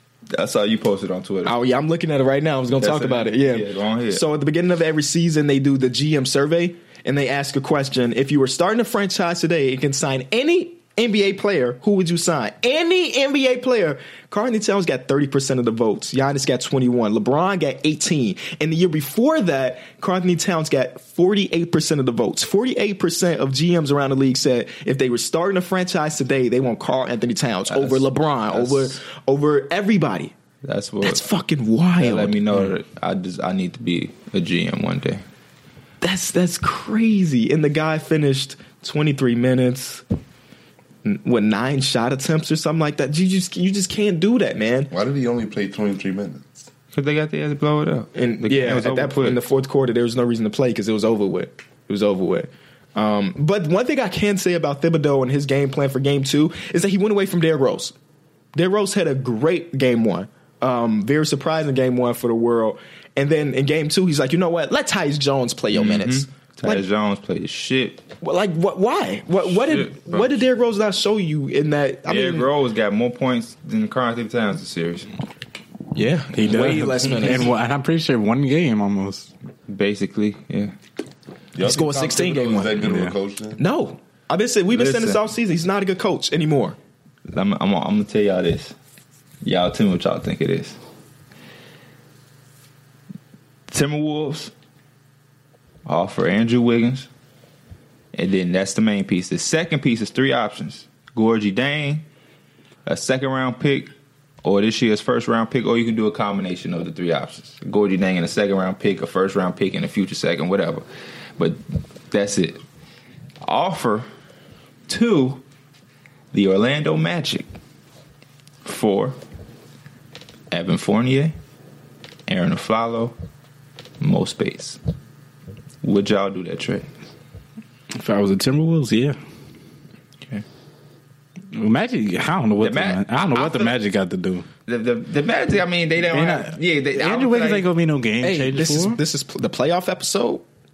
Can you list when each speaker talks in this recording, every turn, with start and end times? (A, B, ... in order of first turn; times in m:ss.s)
0:00.3-0:01.5 A
0:01.4-0:30.3 B
0:02.8-0:04.2 A
0:27.7-0:29.0 A
0:30.6-0:31.2 A
0:31.0-0:32.4 B
0:32.0-0:35.2 A
0:36.0-0:40.0 B
0:41.0-0:44.9 B
0:44.9-0:46.7 C
0:46.9-0:49.4 A
0:48.2-0:57.9 B
0:58.6-1:06.8 B
1:05.7-1:08.1 A
1:08.2-1:12.5 B
1:09.4-1:10.4 A
1:12.1-1:15.1 A
1:16.0-1:17.5 B
1:16.3-1:19.3 D
1:19.7-1:20.7 A
1:21.6-1:23.6 C
1:21.6-1:22.8 B
1:22.8-1:23.1 D
1:23.6-1:26.8 B
1:24.7-1:25.2 A
1:27.3-1:28.8 A
1:29.4-1:30.8 A
1:33.7-1:34.5 A
1:35.9-1:37.1 A
1:38.1-1:42.0 A
1:42.9-1:43.9 A
1:44.4-1:50.8 A
1:51.4-1:52.6 A
1:53.4-1:54.1 A
1:54.9-1:55.4 A
1:56.3-1:57.5 A
1:58.6-1:59.2 A
2:00.5-2:01.4 A
2:02.3-2:03.2 A
2:04.0-2:04.8 A
2:05.8-2:06.9 A
2:08.0-2:09.2 D
2:11.5-2:14.5 D
2:12.6-2:13.8 A
2:14.7-2:17.7 A
2:16.1-2:19.0 D
2:18.2-2:20.4 B